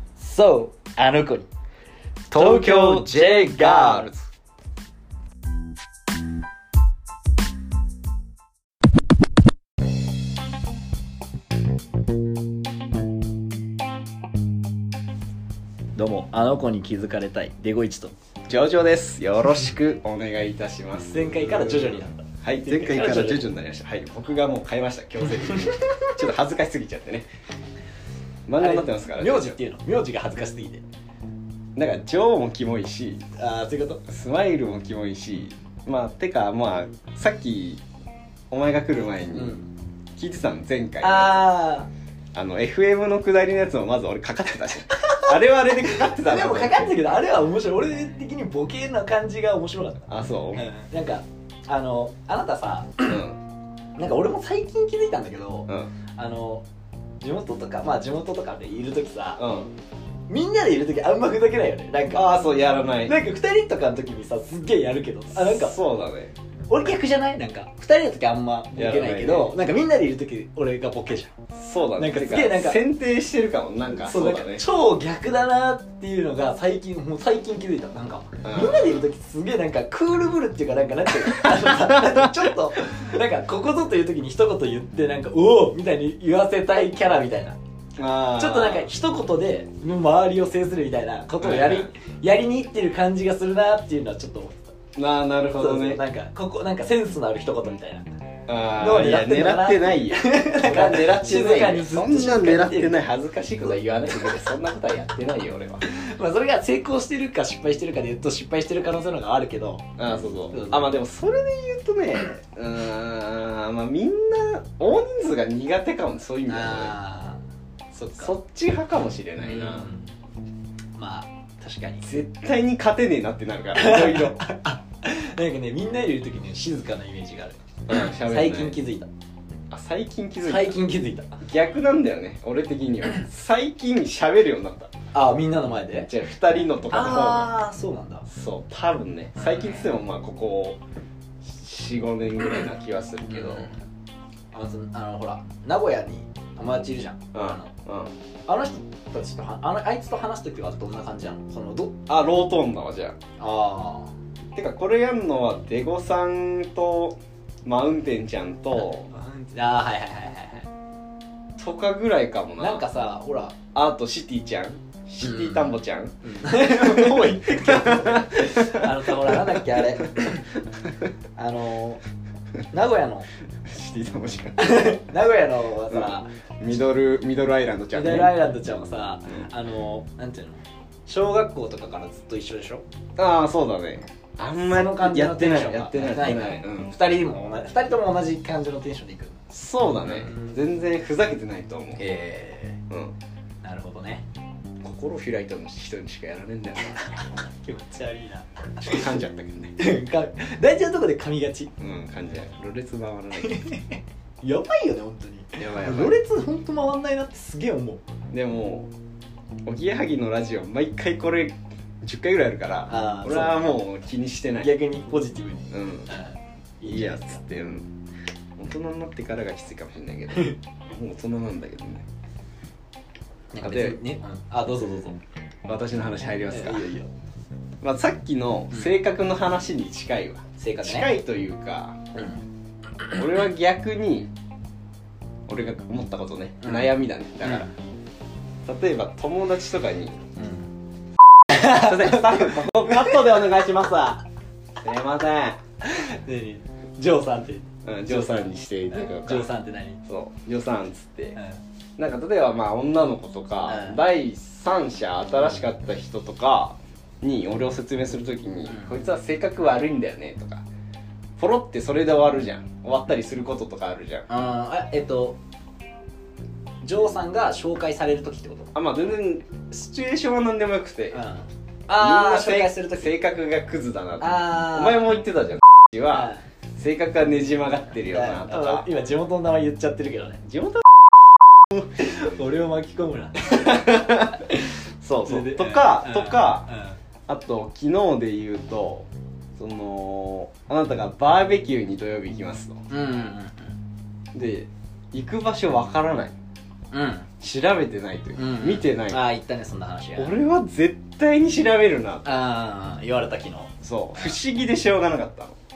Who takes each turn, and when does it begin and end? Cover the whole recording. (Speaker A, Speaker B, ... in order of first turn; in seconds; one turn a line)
Speaker A: 0.2-1.5
Speaker B: 2.3-4.2
Speaker A: 2.3-4.1
Speaker A: 16.0-18.1
Speaker B: 18.5-27.3
Speaker A: 21.0-23.5
Speaker A: 25.5-25.9
Speaker B: 28.5-29.6
Speaker A: 28.6-30.8
Speaker B: 31.8-33.2
Speaker A: 33.4-34.0
Speaker B: 34.1-37.8
Speaker B: 38.5-39.6
Speaker A: 39.3-39.7
Speaker B: 40.2-41.5
Speaker A: 41.0-41.9
Speaker B: 42.3-47.2
Speaker A: 45.9-53.2
Speaker B: 50.1-50.7
Speaker B: 53.0-53.4
Speaker A: 54.0-56.6
Speaker A: 57.2-59.4
Speaker B: 59.4-59.7
Speaker A: 60.3-62.3
Speaker B: 62.1-63.1
Speaker A: 63.0-65.8
Speaker B: 65.3-66.3
Speaker A: 66.7-71.3
Speaker B: 68.8-69.5
Speaker B: 71.5-74.7
Speaker A: 72.0-72.8
Speaker A: 74.0-87.6
Speaker B: 78.4-79.0
Speaker B: 81.3-82.5
Speaker B: 88.0-88.9
Speaker A: 88.3-94.7
Speaker B: 91.4-91.9
Speaker B: 95.0-96.0
Speaker A: 95.5-98.1
Speaker B: 98.5-105.8
Speaker A: 98.8-104.4
Speaker A: 105.8-110.9
Speaker B: 110.0-117.0
Speaker A: 116.5-117.4
Speaker A: 117.9-118.3
Speaker B: 118.2-119.9
Speaker A: 119.4-120.1
Speaker A: 121.0-122.1
Speaker B: 122.0-124.4
Speaker A: 123.8-129.1
Speaker B: 127.9-128.8
Speaker B: 129.7-130.8
Speaker A: 130.4-131.4
Speaker B: 131.4-134.9
Speaker A: 135.1-136.1
Speaker B: 136.1-137.5
Speaker A: 136.9-138.3
Speaker B: 138.3-140.8
Speaker A: 139.4-139.9
Speaker B: 141.4-143.7
Speaker A: 143.3-143.8
Speaker A: 144.5-147.7
Speaker B: 147.3-148.2
Speaker A: 148.5-152.0
Speaker B: 152.1-153.2
Speaker A: 153.4-154.1
Speaker B: 154.5-159.1
Speaker A: 158.8-160.7
Speaker B: 161.6-162.8
Speaker A: 162.6-163.6
Speaker B: 163.7-170.3
Speaker A: 165.2-165.7
Speaker A: 166.2-170.5
Speaker A: 171.3-172.0
Speaker A: 172.7-173.3
Speaker B: 173.7-175.0
Speaker A: 174.6-176.3
Speaker B: 175.9-178.3
Speaker A: 177.9-182.8
Speaker B: 183.2-186.9
Speaker A: 184.6-189.4
Speaker B: 189.5-192.1
Speaker A: 190.0-190.6
Speaker A: 192.0-192.8
Speaker B: 192.9-193.2
Speaker A: 193.6-194.2
Speaker B: 194.8-197.1
Speaker A: 197.5-199.2
Speaker B: 198.8-199.8
Speaker A: 199.8-201.7
Speaker B: 201.8-203.7
Speaker A: 203.4-208.0
Speaker B: 205.6-206.2
Speaker B: 208.3-208.9
Speaker B: 209.7-214.7
Speaker A: 212.9-213.6
Speaker A: 214.6-217.4
Speaker B: 215.7-216.2
Speaker B: 216.8-217.9
Speaker B: 218.6-222.1
Speaker A: 223.5-225.2
Speaker B: 223.6-224.0
Speaker B: 225.7-226.8
Speaker A: 226.4-227.1
Speaker B: 227.8-232.3
Speaker A: 230.6-231.1
Speaker B: 233.1-234.3
Speaker B: 235.5-237.7
Speaker A: 236.6-237.7
Speaker B: 238.7-240.2
Speaker A: 240.4-240.7
Speaker A: 241.5-243.2
Speaker B: 241.5-244.2
Speaker B: 244.8-245.6
Speaker A: 245.8-250.0
Speaker B: 247.8-249.5
Speaker B: 250.1-251.4
Speaker A: 251.3-251.6
Speaker B: 252.0-260.6
Speaker A: 253.7-254.0
Speaker A: 258.7-259.0
Speaker B: 261.4-264.2
Speaker A: 264.3-265.4
Speaker A: 266.8-268.7
Speaker B: 268.8-271.2
Speaker A: 271.1-273.1
Speaker B: 271.9-278.9
Speaker A: 274.2-275.1
Speaker A: 276.1-276.4
Speaker A: 278.1-280.4
Speaker B: 280.4-280.9
Speaker A: 281.8-287.0
Speaker B: 283.5-284.4
Speaker B: 285.0-286.7
Speaker B: 287.3-292.8
Speaker A: 292.9-293.8
Speaker B: 294.3-296.3
Speaker A: 296.9-297.3
Speaker B: 297.4-299.2
Speaker A: 298.4-300.4
Speaker B: 300.1-302.3
Speaker A: 302.2-304.4
Speaker B: 303.8-305.6